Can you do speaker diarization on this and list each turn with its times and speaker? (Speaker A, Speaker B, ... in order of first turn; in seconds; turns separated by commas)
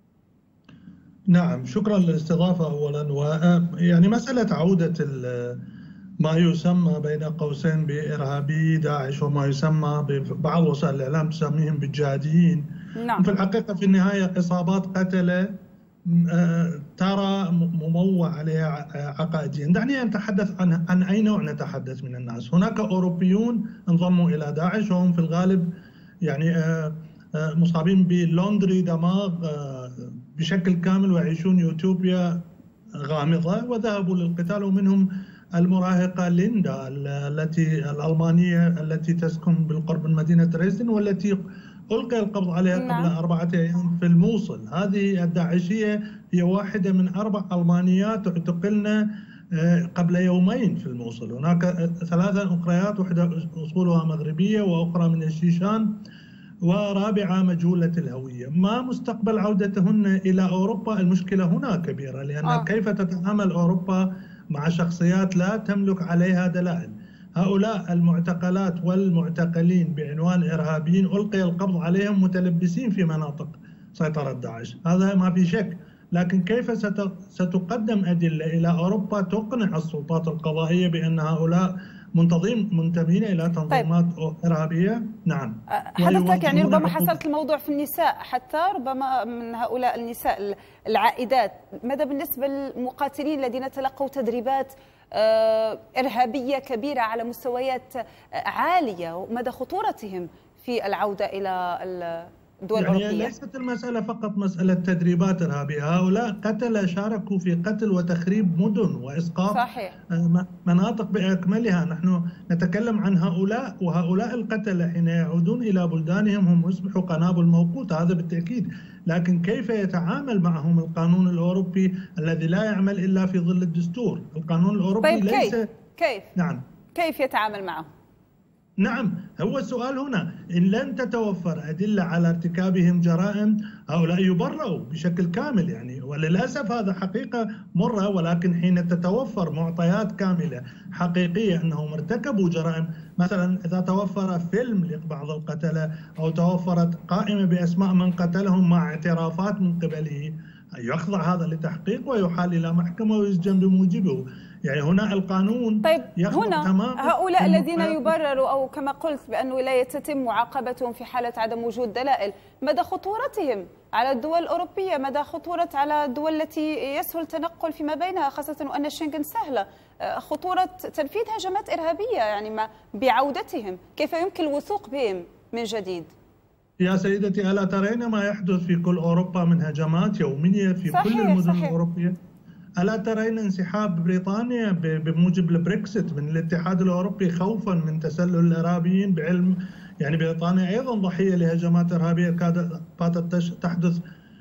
Speaker A: 1.3-5.6, Speaker A: 6.2-12.7, Speaker B: 13.0-13.3, Speaker A: 13.2-15.5, Speaker A: 16.1-25.7, Speaker A: 26.2-32.5, Speaker A: 33.0-41.4, Speaker A: 41.9-55.9, Speaker B: 42.7-43.1, Speaker A: 56.6-87.2, Speaker B: 85.7-103.3, Speaker A: 102.8-125.7, Speaker B: 109.5-109.9, Speaker B: 125.0-126.3, Speaker A: 126.3-126.6, Speaker B: 126.9-127.9, Speaker A: 128.8-158.2, Speaker B: 155.8-176.1, Speaker A: 176.8-182.2, Speaker B: 180.9-181.8, Speaker A: 182.8-194.0